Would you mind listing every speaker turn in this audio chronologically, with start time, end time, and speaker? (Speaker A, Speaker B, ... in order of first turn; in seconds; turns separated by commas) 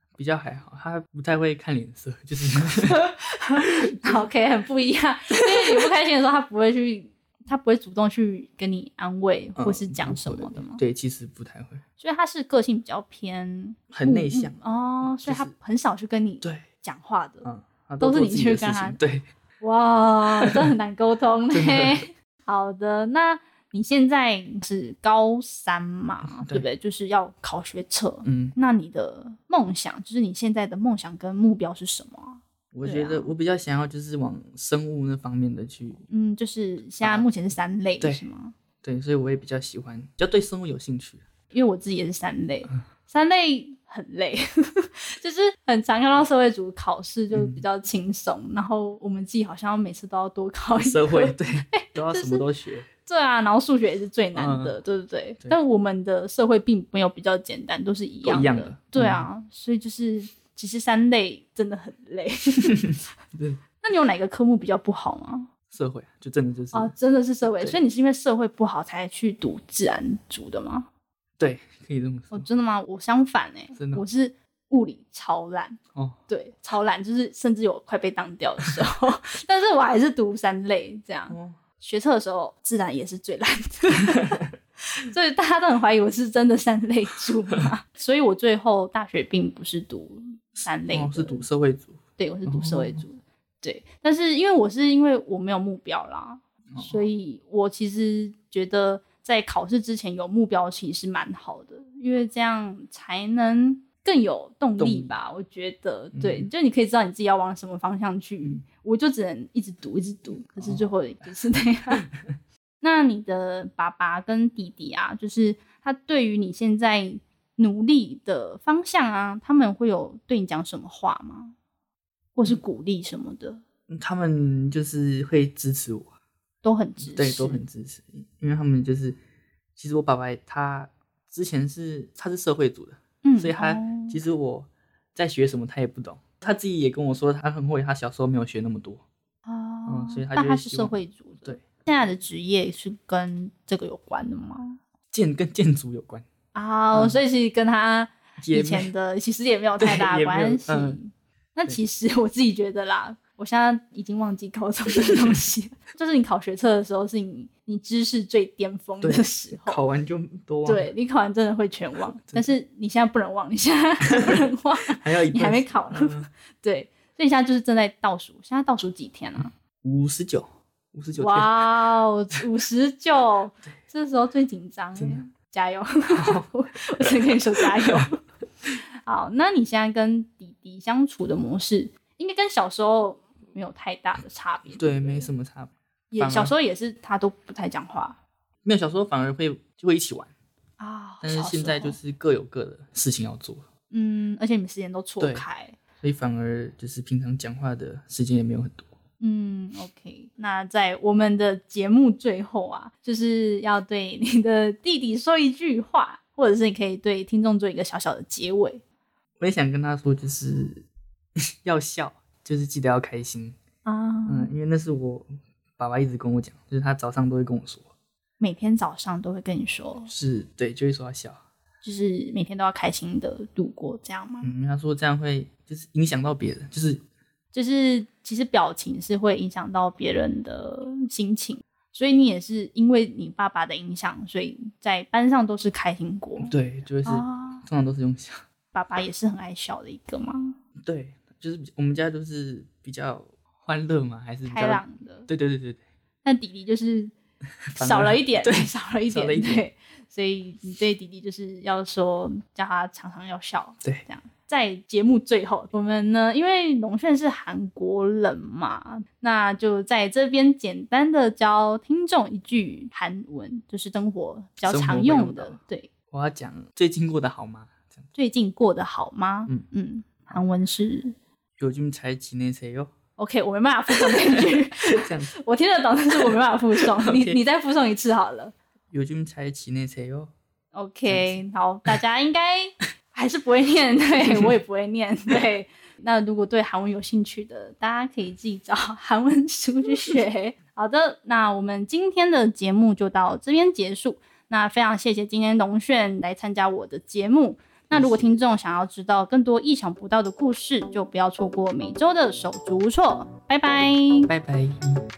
Speaker A: 0.2-3.0, Speaker B: 2.8-10.8, Speaker A: 3.6-4.3, Speaker A: 5.3-5.9, Speaker A: 9.6-11.8, Speaker B: 12.0-17.5, Speaker A: 13.9-15.5, Speaker A: 17.4-19.2, Speaker B: 18.0-19.0, Speaker B: 19.6-33.3, Speaker A: 20.4-20.6, Speaker A: 21.5-22.0, Speaker A: 26.2-26.7, Speaker A: 28.2-28.6, Speaker A: 32.7-36.0, Speaker B: 36.1-38.5, Speaker A: 37.0-37.3, Speaker A: 38.8-41.2, Speaker B: 41.5-52.5, Speaker A: 47.3-47.6, Speaker A: 50.8-52.9, Speaker B: 53.0-63.0, Speaker A: 54.4-54.8, Speaker A: 58.2-59.3, Speaker A: 62.8-63.6, Speaker B: 63.8-65.5, Speaker A: 65.7-66.9, Speaker B: 66.7-70.9, Speaker A: 71.4-72.5, Speaker B: 72.3-91.5, Speaker A: 73.8-74.0, Speaker A: 81.3-81.6, Speaker A: 90.6-93.0, Speaker B: 92.2-112.1, Speaker A: 96.7-97.1, Speaker A: 104.8-105.1, Speaker A: 106.1-106.5, Speaker B: 112.8-121.5, Speaker B: 122.3-123.6, Speaker A: 123.9-126.1, Speaker B: 126.6-127.6, Speaker A: 127.0-129.2, Speaker A: 129.8-139.0, Speaker B: 133.2-134.2, Speaker B: 139.5-144.8, Speaker A: 139.9-141.6, Speaker A: 145.1-146.3, Speaker B: 146.5-159.8, Speaker A: 146.9-147.2, Speaker A: 148.4-148.9, Speaker A: 149.8-151.0, Speaker A: 159.0-160.9, Speaker B: 160.7-169.5, Speaker A: 164.9-166.3, Speaker A: 169.8-171.7, Speaker B: 171.2-185.3, Speaker A: 175.0-175.2, Speaker A: 176.1-176.5, Speaker A: 177.0-178.1, Speaker A: 184.7-186.5, Speaker B: 186.1-188.2, Speaker A: 188.6-190.3, Speaker B: 190.8-192.0, Speaker A: 191.2-193.6, Speaker B: 193.9-195.8, Speaker A: 195.2-195.4, Speaker A: 196.0-198.9, Speaker B: 199.2-208.8, Speaker A: 209.4-210.8, Speaker A: 211.6-213.6, Speaker B: 213.8-214.5, Speaker A: 214.3-217.9, Speaker B: 218.4-220.1, Speaker A: 220.1-221.4, Speaker B: 221.8-224.5, Speaker A: 224.4-227.0, Speaker B: 227.5-236.5, Speaker A: 236.4-238.4, Speaker B: 237.1-237.6, Speaker B: 238.7-240.6, Speaker A: 240.9-245.8, Speaker B: 244.5-245.3, Speaker B: 246.2-247.1, Speaker A: 247.7-249.7, Speaker B: 247.8-265.9, Speaker A: 264.6-265.6, Speaker A: 266.1-267.9, Speaker B: 268.1-271.1, Speaker A: 271.6-272.9, Speaker B: 273.2-278.5, Speaker A: 274.8-275.3, Speaker A: 276.8-277.4, Speaker A: 278.9-280.3, Speaker B: 280.7-304.3, Speaker A: 281.1-281.9, Speaker A: 284.2-284.5, Speaker A: 297.9-298.3, Speaker A: 304.3-305.0